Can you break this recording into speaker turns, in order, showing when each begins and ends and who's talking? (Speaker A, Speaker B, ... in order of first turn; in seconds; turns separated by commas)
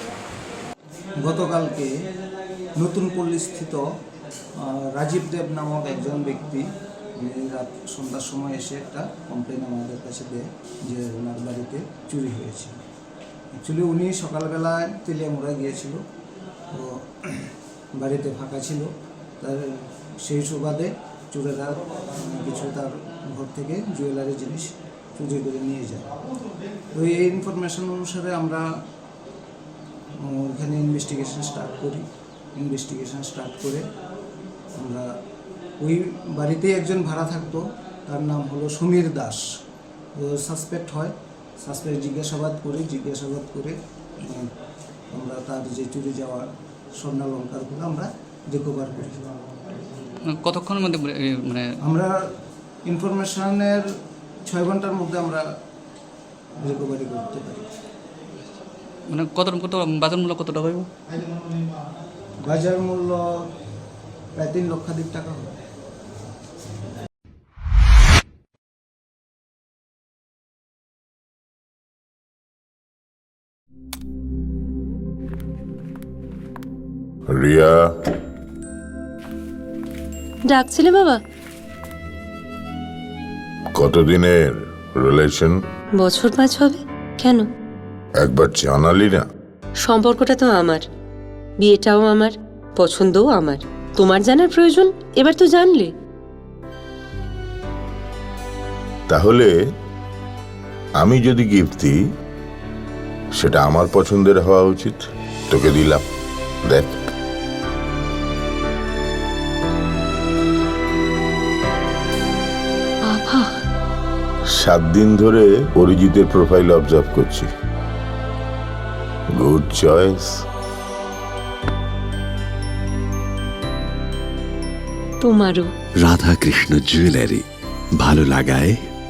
Speaker A: 1.2-1.9, Speaker A: 2.8-3.8, Speaker A: 4.6-12.8, Speaker A: 13.5-16.0, Speaker A: 16.7-26.1, Speaker A: 26.9-28.6, Speaker A: 30.2-33.9, Speaker A: 34.8-35.1, Speaker A: 35.8-39.5, Speaker A: 40.1-44.5, Speaker A: 45.1-49.2, Speaker B: 50.2-51.7, Speaker A: 51.8-52.2, Speaker A: 52.8-53.9, Speaker A: 54.4-55.4, Speaker A: 56.6-57.7, Speaker B: 59.1-60.9, Speaker A: 62.4-63.3, Speaker A: 64.3-65.5, Speaker C: 77.3-77.9, Speaker D: 80.5-81.2, Speaker C: 83.7-85.6, Speaker D: 86.0-87.5, Speaker C: 88.2-89.2, Speaker D: 89.8-90.8, Speaker D: 91.6-95.9, Speaker C: 99.1-99.5, Speaker C: 101.0-102.0, Speaker C: 103.3-106.0, Speaker C: 106.7-107.0, Speaker D: 113.1-113.6, Speaker C: 114.5-117.5, Speaker C: 119.3-120.4, Speaker D: 125.2-125.7, Speaker E: 126.0-127.4, Speaker E: 128.0-128.8